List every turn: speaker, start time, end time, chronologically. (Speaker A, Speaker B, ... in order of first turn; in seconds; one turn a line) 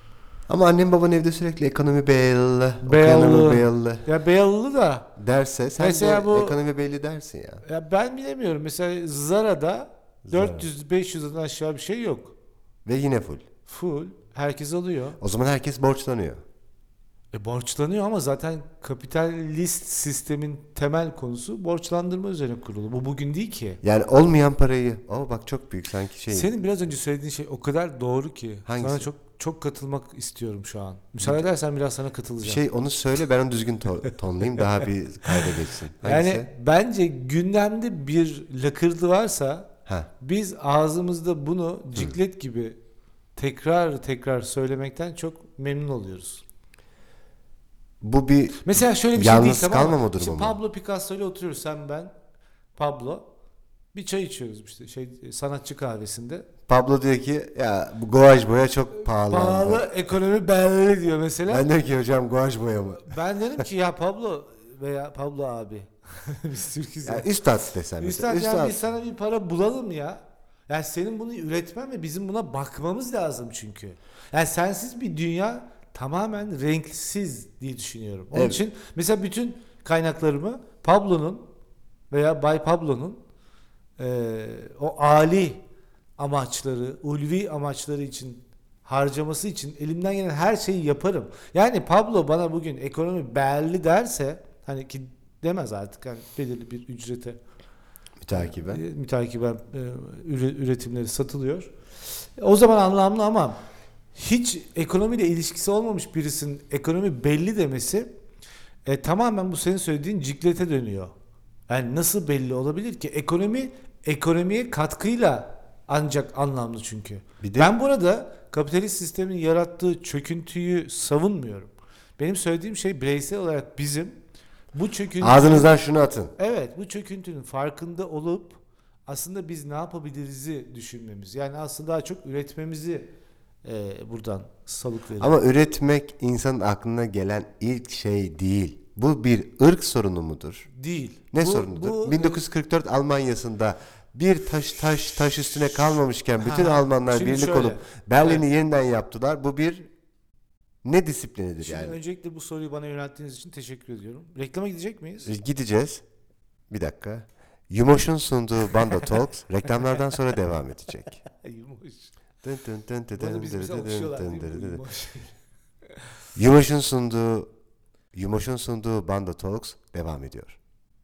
Speaker A: 0.5-4.0
Speaker B: 2.8-5.1
Speaker A: 5.2-7.6
Speaker B: 5.8-6.6
Speaker B: 7.6-12.3
Speaker A: 10.3-10.7
Speaker A: 12.8-13.4
Speaker B: 13.7-15.2
Speaker A: 15.2-16.4
Speaker B: 17.3-23.8
Speaker A: 23.8-26.5
Speaker B: 26.3-32.6
Speaker A: 28.7-29.1
Speaker A: 32.4-36.5
Speaker B: 34.6-35.5
Speaker B: 36.0-39.7
Speaker B: 40.2-42.8
Speaker B: 43.4-46.4
Speaker A: 48.0-50.6
Speaker B: 48.6-52.1
Speaker B: 52.8-53.3
Speaker B: 53.9-56.5
Speaker A: 56.7-59.9
Speaker B: 59.0-61.7
Speaker A: 61.5-63.6
Speaker B: 63.0-67.3
Speaker A: 67.0-68.8
Speaker B: 68.0-81.5
Speaker A: 78.3-78.6
Speaker B: 82.1-83.2
Speaker B: 84.0-85.6
Speaker B: 86.2-97.4
Speaker A: 98.2-98.8
Speaker B: 98.3-101.7
Speaker B: 102.4-103.6
Speaker B: 104.2-108.1
Speaker B: 108.9-111.1
Speaker B: 111.7-124.2
Speaker A: 117.4-117.7
Speaker B: 124.7-125.8
Speaker A: 125.2-126.3
Speaker B: 126.4-133.1
Speaker B: 133.6-135.4
Speaker A: 135.2-140.7
Speaker B: 140.7-142.4
Speaker A: 141.3-149.9
Speaker B: 146.4-148.5
Speaker A: 150.8-152.0
Speaker B: 151.6-155.3
Speaker A: 155.3-156.0
Speaker A: 156.7-161.2
Speaker B: 161.2-162.1
Speaker A: 162.4-164.8
Speaker B: 163.1-165.3
Speaker A: 166.4-167.5
Speaker A: 168.1-170.6